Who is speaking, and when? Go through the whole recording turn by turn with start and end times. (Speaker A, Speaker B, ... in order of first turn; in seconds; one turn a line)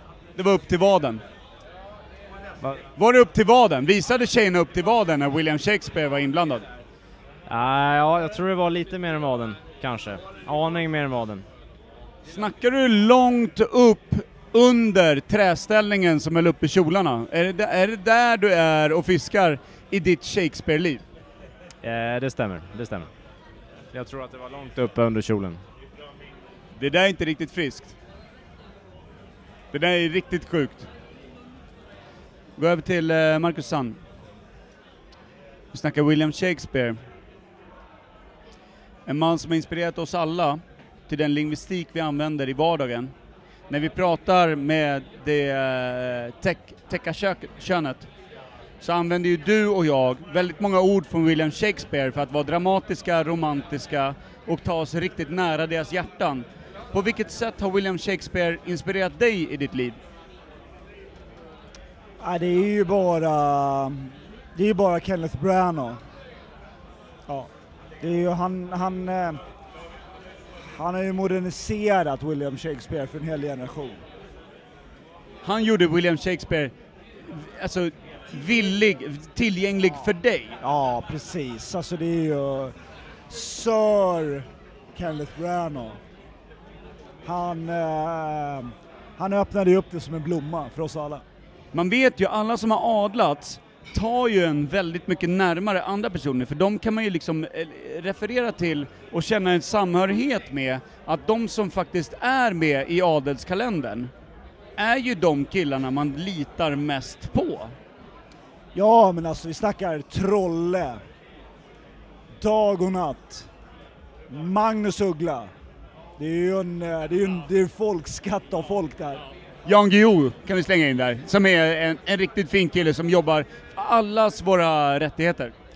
Speaker A: 0.4-1.2
Speaker A: 3.0-6.7
Speaker B: 7.5-11.4
Speaker A: 12.3-21.0
Speaker B: 21.8-23.1
Speaker B: 23.9-25.6
Speaker A: 26.8-27.9
Speaker A: 29.7-30.9
Speaker A: 32.6-34.0
Speaker A: 35.7-37.0
Speaker A: 39.0-43.1
Speaker A: 43.7-48.1
Speaker A: 48.8-60.0
Speaker C: 62.2-66.0
Speaker C: 68.0-69.4
Speaker C: 70.7-74.0
Speaker A: 75.4-76.7
Speaker A: 77.2-80.6
Speaker C: 80.6-82.7
Speaker C: 83.3-86.0
Speaker C: 87.2-91.2
Speaker A: 91.7-104.1
Speaker A: 104.8-107.7
Speaker C: 108.7-111.0
Speaker C: 112.4-113.5
Speaker C: 114.3-115.5
Speaker C: 116.2-119.2
Speaker A: 119.6-125.5